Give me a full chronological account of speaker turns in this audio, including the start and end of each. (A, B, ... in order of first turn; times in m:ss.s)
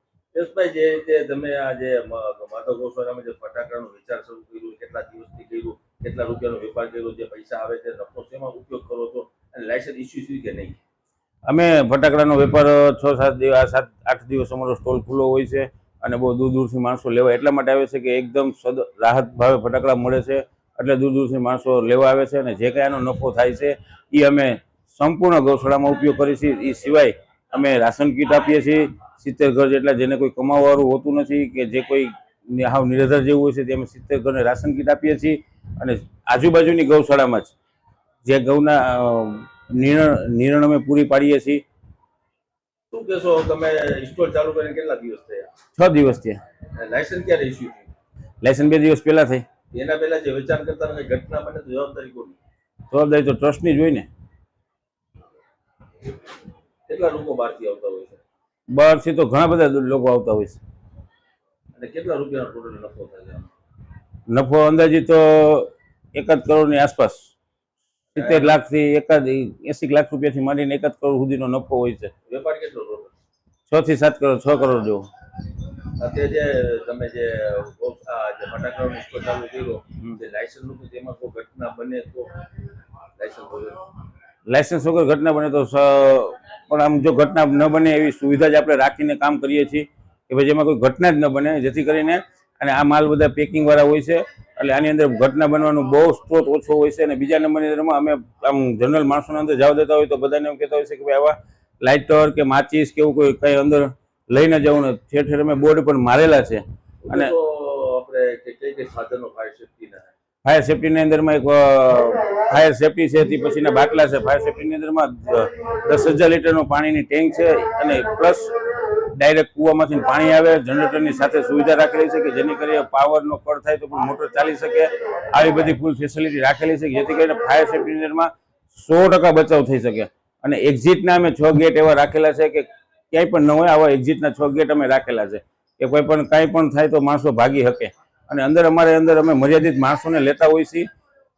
0:00.3-0:10.8 A
0:11.4-0:37.5 B
0:38.2-0:41.6 B
0:42.9-0:45.5 A
0:45.8-0:46.4 B
0:46.8-0:47.9 A
0:48.4-0:49.4 B
0:49.7-0:52.4 A
0:52.9-0:54.1 B
0:56.9-0:58.2 A
0:58.7-1:00.6 B
1:01.8-1:03.5 A
1:04.3-1:07.3 B
1:08.1-1:12.1 B
1:08.2-1:08.6 A
1:12.2-1:13.1 A
1:13.7-1:15.0 B
1:16.0-1:22.3 A
1:23.2-1:23.9 A
1:24.5-1:47.3 B
1:47.0-1:50.1 A
1:50.4-2:20.9 B